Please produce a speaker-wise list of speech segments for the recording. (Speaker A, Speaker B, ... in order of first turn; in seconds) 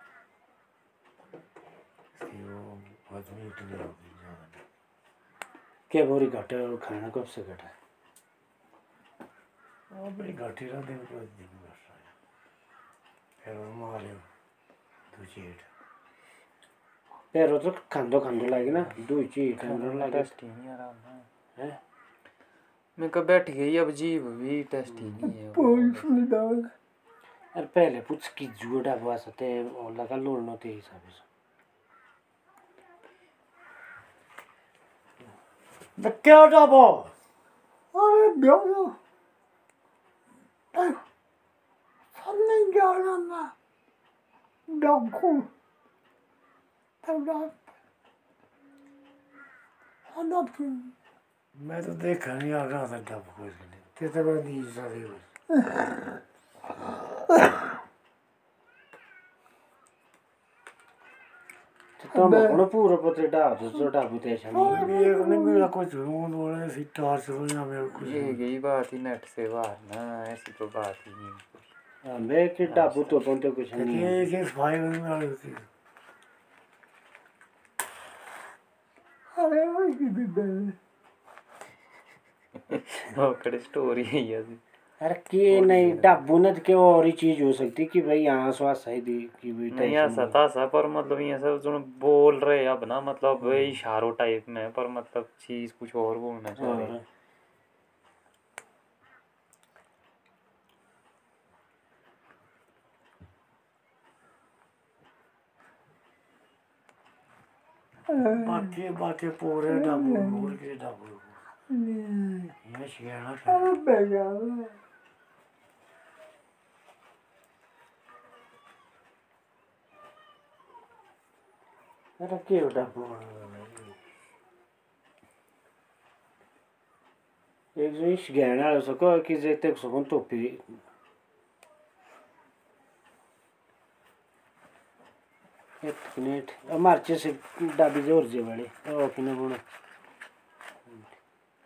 Speaker A: 2.1-4.7, 9.9-12.1, 13.4-14.3, 15.1-15.7, 36.0-37.1, 51.5-55.3, 64.5-68.4, 73.7-75.7, 108.2-111.5, 112.6-113.7, 122.9-123.9
Speaker B: 5.9-7.7, 17.3-20.3, 27.5-31.2, 62.0-64.9, 72.0-74.3, 85.0-90.4, 96.6-97.0, 122.2-122.9, 127.7-130.8, 135.8-139.6
Speaker C: 19.6-21.3, 23.0-26.1, 68.0-71.7, 72.6-73.2, 82.7-84.6, 85.5-86.2, 89.7-97.0
Speaker D: 25.3-26.7, 37.9-39.0, 40.7-41.0, 42.1-43.5, 44.7-45.5, 47.0-47.6, 50.1-50.9, 62.1-62.6, 64.5-65.7, 79.3-80.8, 108.1-108.6, 109.8-110.5, 111.7-112.5, 113.5-114.8